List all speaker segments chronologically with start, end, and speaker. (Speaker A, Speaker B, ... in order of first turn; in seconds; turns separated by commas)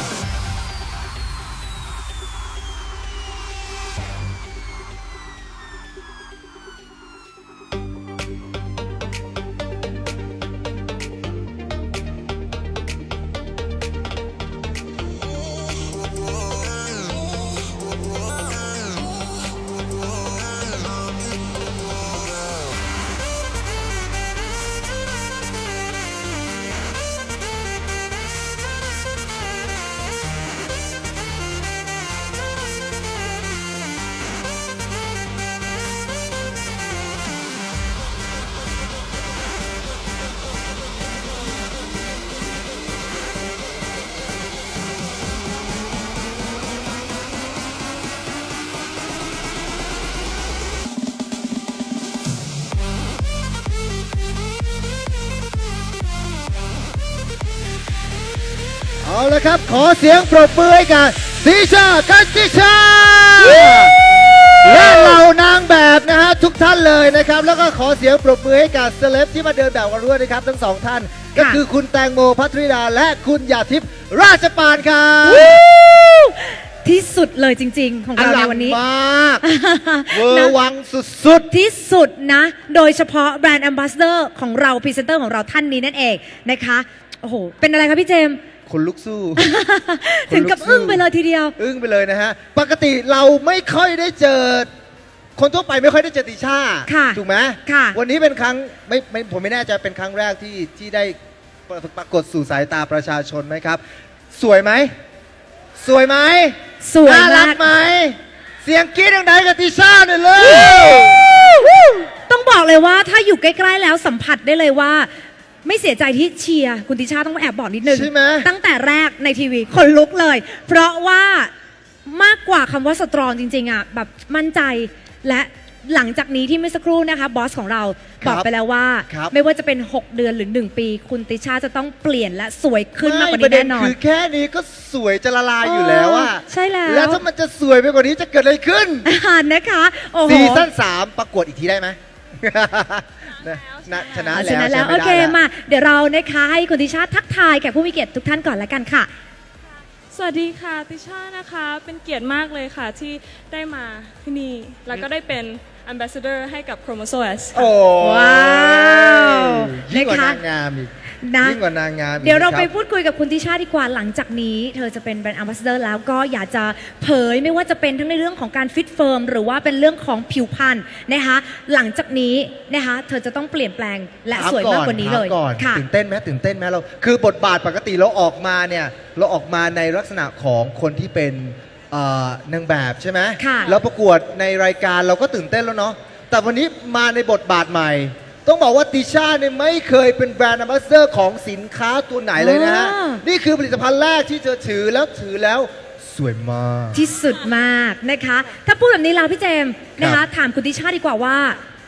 Speaker A: 59.0-75.6, Speaker B: 71.3-71.6, Speaker B: 75.2-78.8, Speaker A: 78.1-79.4, Speaker B: 79.4-80.5, Speaker A: 80.1-81.5, Speaker B: 81.5-88.4, Speaker A: 88.7-89.5, Speaker B: 89.3-91.5, Speaker A: 90.3-91.0, Speaker A: 91.6-94.7, Speaker A: 95.4-104.9, Speaker B: 96.9-98.0, Speaker A: 105.8-111.3, Speaker B: 106.8-107.7, Speaker B: 110.6-111.5, Speaker B: 112.3-115.1, Speaker B: 115.6-121.5, Speaker A: 117.8-118.5, Speaker B: 122.0-133.9, Speaker A: 128.2-128.5, Speaker A: 129.1-129.3, Speaker A: 133.0-139.1, Speaker B: 135.6-137.2, Speaker B: 139.0-140.7, Speaker A: 140.2-145.4, Speaker C: 143.2-144.5, Speaker B: 144.3-149.1, Speaker C: 150.1-157.7, Speaker A: 157.5-162.7, Speaker B: 158.0-160.4, Speaker B: 161.2-161.6, Speaker B: 162.2-175.8, Speaker A: 174.3-197.0, Speaker B: 183.4-183.7, Speaker B: 192.3-193.2, Speaker B: 196.9-201.6